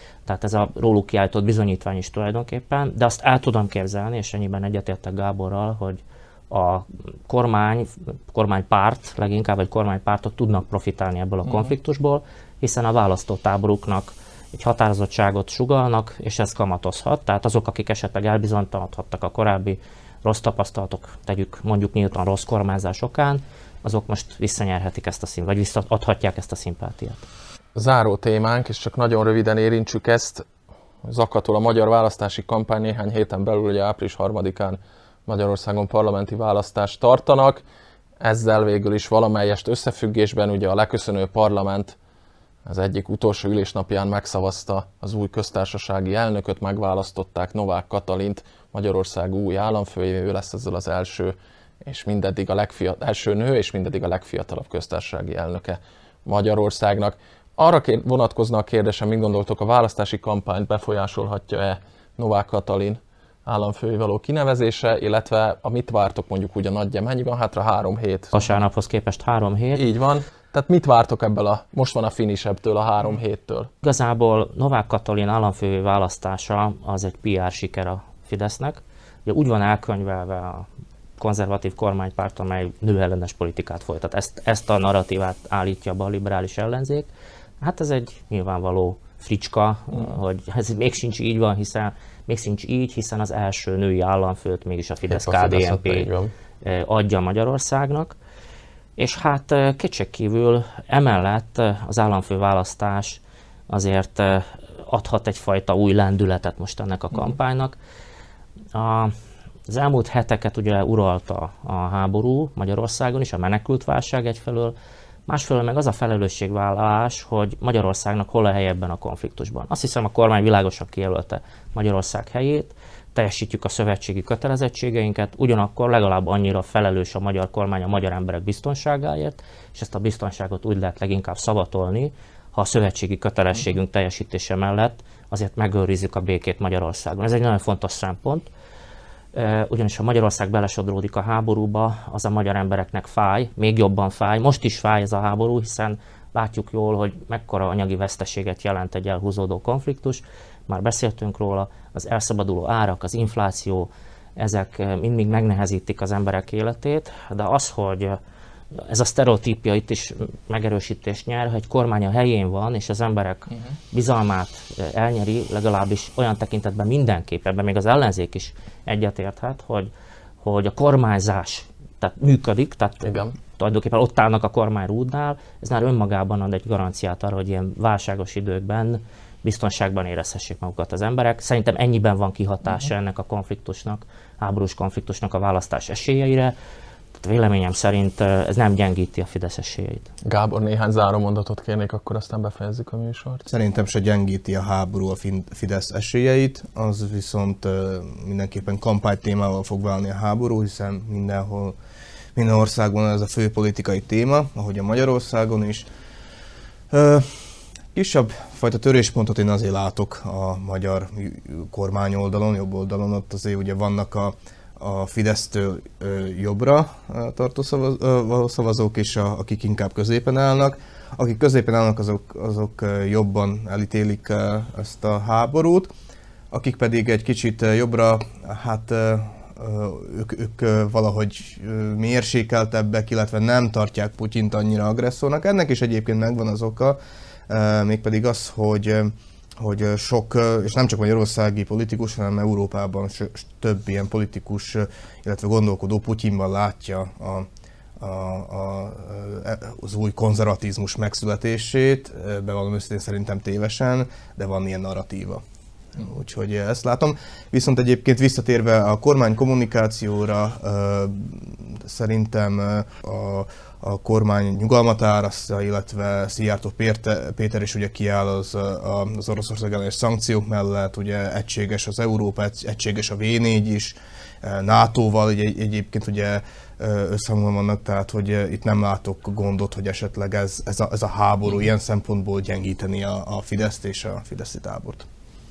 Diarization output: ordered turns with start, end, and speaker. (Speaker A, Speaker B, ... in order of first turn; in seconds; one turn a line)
Speaker A: 0.3-27.2
Speaker B: 11.4-11.7
Speaker B: 27.8-30.5
Speaker B: 31.1-37.6
Speaker B: 38.2-42.0
Speaker B: 42.7-68.5
Speaker A: 68.3-69.8
Speaker B: 69.8-73.7
Speaker A: 73.8-80.7
Speaker A: 81.2-87.1
Speaker A: 87.6-96.1
Speaker B: 95.1-96.3
Speaker A: 96.6-98.2
Speaker A: 99.0-107.8
Speaker A: 108.8-109.2
Speaker A: 109.7-114.8
Speaker A: 115.3-138.5
Speaker A: 139.3-158.2
Speaker A: 158.7-169.9
Speaker A: 170.4-186.6
Speaker B: 173.0-173.3
Speaker A: 187.2-190.1
Speaker B: 190.2-193.5
Speaker C: 193.5-201.8
Speaker C: 202.3-205.9
Speaker C: 206.9-225.9
Speaker C: 226.5-237.0
Speaker C: 237.5-247.5
Speaker C: 248.0-255.4
Speaker C: 255.9-285.1